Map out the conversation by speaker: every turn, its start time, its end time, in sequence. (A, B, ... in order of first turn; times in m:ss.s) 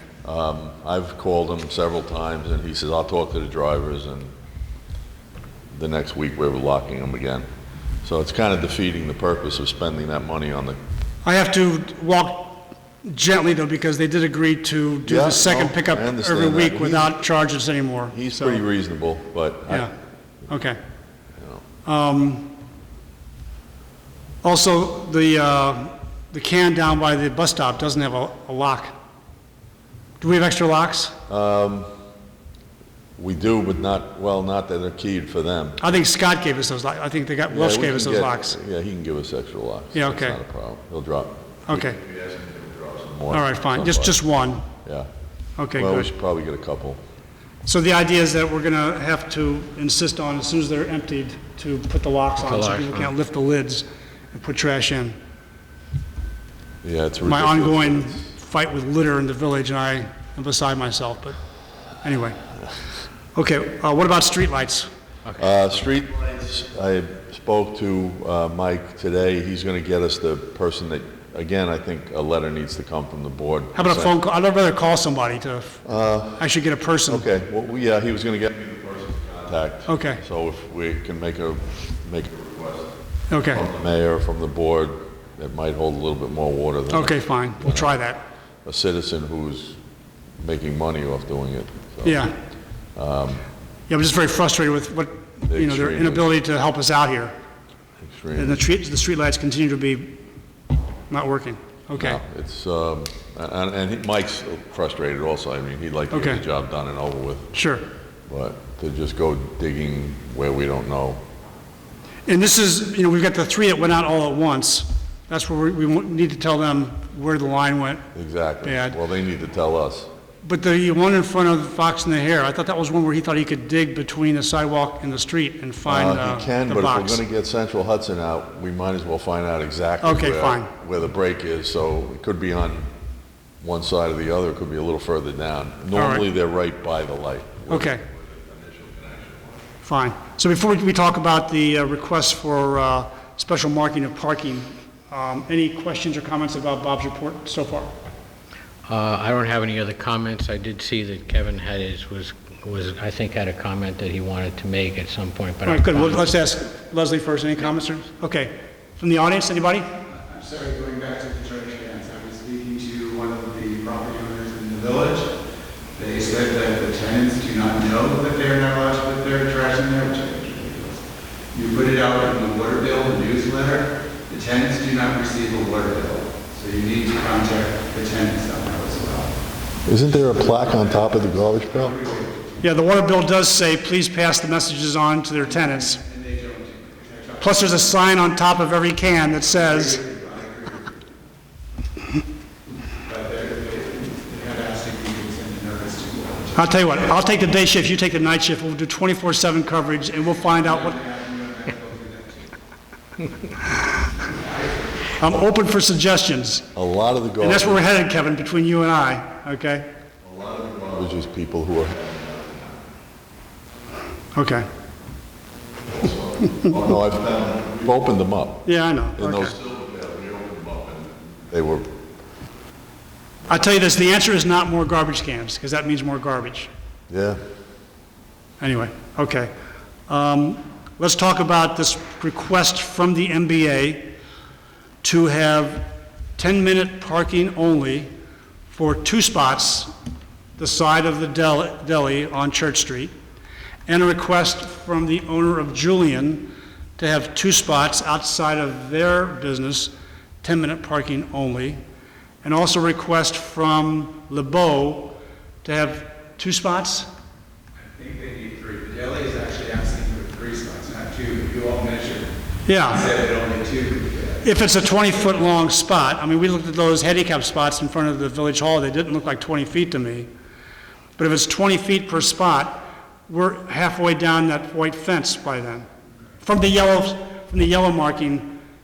0:00.2-0:04.3 A
0:05.7-0:07.5 A
0:08.0-0:10.8 A
0:11.2-0:18.6 B
0:15.1-0:17.2 A
0:18.1-0:19.9 A
0:20.5-0:20.8 B
0:21.8-0:22.6 B
0:24.4-0:29.0 B
0:30.2-0:31.2 B
0:31.3-0:31.9 A
0:33.2-0:36.0 A
0:35.8-0:38.6 B
0:37.5-0:44.2 A
0:40.0-0:40.4 B
0:41.7-0:42.0 B
0:43.3-0:44.7 B
0:44.8-0:45.1 A
0:45.6-0:46.1 B
0:45.8-0:47.0 A
0:47.7-0:55.2 B
0:52.5-0:53.1 C
0:56.8-0:58.3 A
0:57.2-1:01.4 B
1:02.0-1:02.5 B
1:03.4-1:04.9 B
1:05.4-1:14.1 A
1:13.8-1:15.8 B
1:15.8-1:16.5 A
1:16.4-1:17.3 B
1:17.1-1:28.0 A
1:19.9-1:20.2 B
1:23.3-1:23.7 B
1:26.9-1:28.2 B
1:28.6-1:29.8 A
1:30.4-1:32.3 A
1:32.0-1:32.3 B
1:33.0-1:33.4 A
1:33.9-1:37.4 B
1:35.5-1:36.3 A
1:38.0-1:38.6 A
1:38.4-1:40.2 B
1:41.1-1:42.2 B
1:41.9-1:47.6 A
1:46.1-1:46.4 B
1:47.5-1:47.8 B
1:48.3-1:51.2 A
1:52.3-1:58.1 B
1:58.2-2:00.1 A
1:58.6-1:59.0 B
2:00.4-2:07.2 B
2:05.9-2:12.9 A
2:10.0-2:10.7 B
2:13.6-2:19.6 A
2:15.9-2:16.2 B
2:17.7-2:18.0 B
2:19.8-2:27.9 B
2:28.8-2:36.2 C
2:35.7-2:39.9 B
2:40.1-2:45.3 D
2:46.0-2:59.4 D
2:59.8-3:02.0 A
3:00.5-3:02.7 D
3:02.6-3:06.0 B
3:05.6-3:08.1 D
3:07.4-3:10.0 B
3:09.4-3:11.0 D
3:13.0-3:16.7 D
3:16.6-3:21.0 B
3:20.4-3:22.6 D
3:24.1-3:25.1 D
3:25.2-3:26.7 B
3:26.8-3:27.8 A
3:27.4-3:29.9 B
3:30.2-3:32.8 A
3:34.4-3:34.7 B
3:35.9-3:42.0 A
3:38.6-3:39.5 B
3:43.5-3:46.7 B
3:47.1-3:47.4 A
3:48.6-3:49.5 B
3:50.1-3:54.1 B
3:55.0-3:58.1 B
3:58.7-3:59.9 B
4:00.6-4:03.1 B
4:03.9-4:11.8 B
4:12.4-4:17.1 B
4:17.8-4:22.3 D
4:22.7-4:23.1 B
4:22.9-4:24.5 D
4:24.4-4:30.3 B
4:31.2-4:35.9 B
4:36.4-4:38.6 B